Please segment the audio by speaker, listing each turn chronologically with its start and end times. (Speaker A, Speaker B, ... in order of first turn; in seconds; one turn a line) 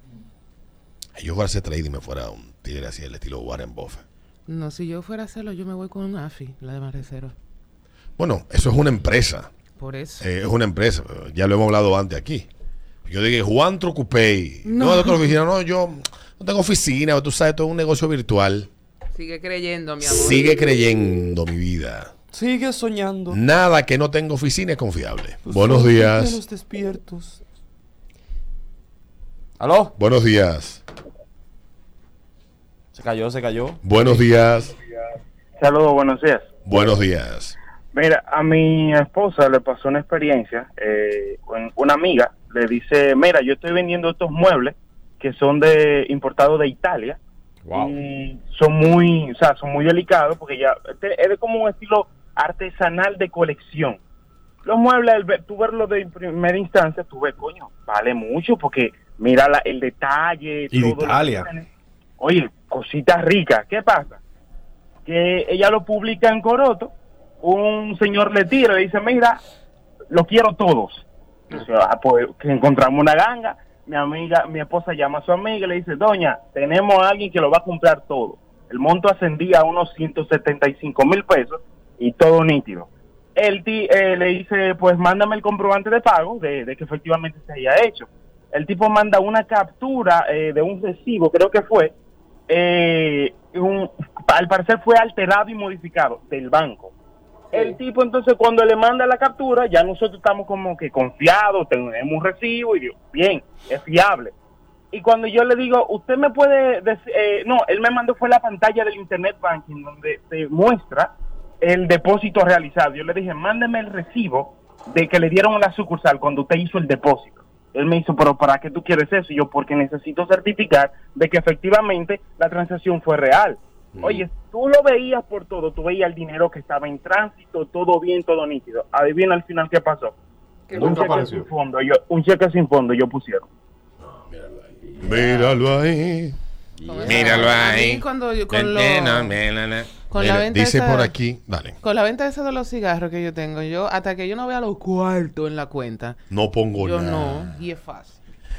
Speaker A: 1.2-4.0
Speaker B: 4.5-7.3
Speaker A: 8.2-9.5
Speaker B: 9.8-10.3
Speaker A: 10.2-12.5
Speaker A: 13.1-18.7
Speaker B: 14.7-15.3
Speaker B: 19.1-20.5
Speaker A: 20.0-22.1
Speaker C: 22.3-23.4
Speaker A: 23.3-26.4
Speaker C: 25.4-27.4
Speaker C: 29.6-29.9
Speaker A: 30.0-30.8
Speaker C: 32.9-34.2
Speaker A: 33.8-34.7
Speaker D: 35.6-36.5
Speaker A: 36.7-37.5
Speaker D: 37.9-47.2
Speaker E: 47.7-48.0
Speaker D: 47.7-54.0
Speaker D: 54.6-61.7
Speaker E: 60.7-61.5
Speaker D: 62.2-64.2
Speaker D: 65.1-69.4
Speaker D: 70.1-91.9
Speaker D: 92.5-96.9
Speaker D: 97.5-104.3
Speaker D: 104.9-130.1
Speaker E: 124.0-124.2
Speaker B: 130.7-131.3
Speaker E: 130.7-131.5
Speaker D: 130.8-133.5
Speaker A: 134.0-136.4
Speaker B: 135.2-135.6
Speaker E: 136.8-137.5
Speaker B: 136.8-139.4
Speaker A: 137.0-141.8
Speaker B: 140.1-141.2
Speaker B: 141.8-146.2
Speaker A: 146.3-147.6
Speaker B: 146.7-148.2